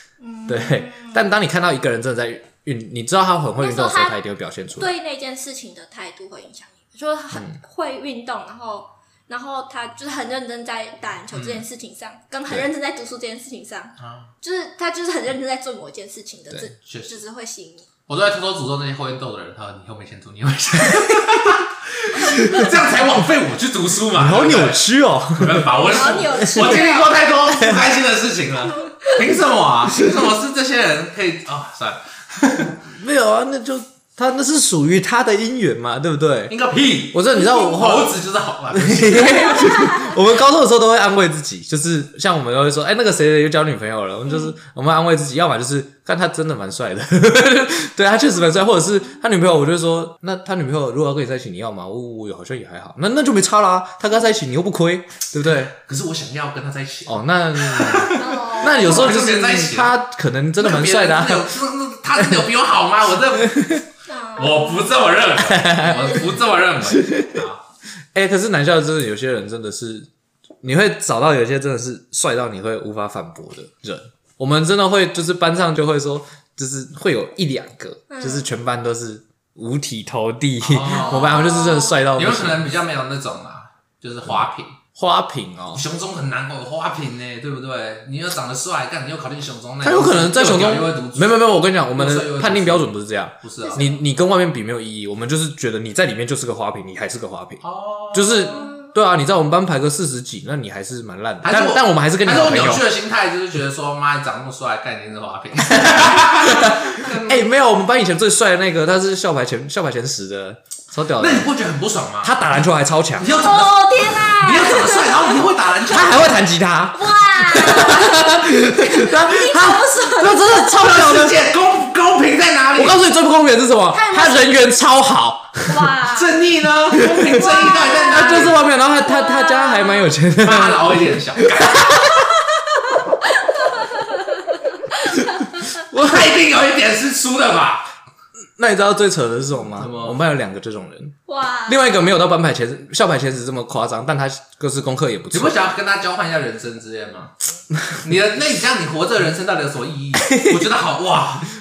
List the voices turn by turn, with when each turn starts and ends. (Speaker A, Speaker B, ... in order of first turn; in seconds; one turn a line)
Speaker A: 0.2-1.3
Speaker B: 0.5-4.9
Speaker A: 3.6-4.2
Speaker A: 4.7-17.9
Speaker B: 7.3-7.6
Speaker C: 11.3-11.6
Speaker C: 14.0-14.3
Speaker C: 16.8-17.2
Speaker C: 18.1-24.8
Speaker B: 24.1-26.9
Speaker C: 25.3-32.8
Speaker A: 25.8-27.2
Speaker B: 27.6-27.9
Speaker A: 28.7-29.1
Speaker B: 32.8-36.5
Speaker C: 36.5-39.7
Speaker B: 37.1-38.2
Speaker B: 38.7-55.7
Speaker A: 39.2-40.2
Speaker C: 55.5-60.0
Speaker B: 57.1-61.5
Speaker A: 58.0-59.1
Speaker C: 60.6-63.8
Speaker B: 62.1-62.5
Speaker A: 64.0-65.0
Speaker C: 64.3-67.6
Speaker B: 65.3-66.1
Speaker A: 65.9-66.4
Speaker B: 66.9-67.4
Speaker B: 68.1-70.1
Speaker B: 70.6-82.7
Speaker A: 78.1-78.5
Speaker C: 80.6-84.8
Speaker A: 81.0-82.0
Speaker B: 85.0-85.8
Speaker C: 85.7-93.9
Speaker B: 89.8-97.6
Speaker C: 97.6-98.7
Speaker B: 98.1-102.9
Speaker C: 101.4-107.5
Speaker B: 105.6-111.5
Speaker C: 111.2-112.6
Speaker B: 112.2-113.4
Speaker C: 113.2-116.4
Speaker A: 113.2-115.5
Speaker B: 115.8-121.5
Speaker A: 116.9-120.9
Speaker C: 120.7-123.0
Speaker B: 122.7-125.9
Speaker A: 123.9-124.6
Speaker A: 125.7-126.4
Speaker C: 126.1-128.6
Speaker B: 126.9-132.3
Speaker A: 127.3-130.2
Speaker C: 130.4-132.1
Speaker A: 133.6-135.7
Speaker B: 135.8-136.3
Speaker C: 135.9-137.9
Speaker B: 138.6-145.6
Speaker C: 139.7-140.2
Speaker A: 141.3-142.0
Speaker C: 145.3-147.3
Speaker C: 148.0-151.5
Speaker B: 150.2-150.7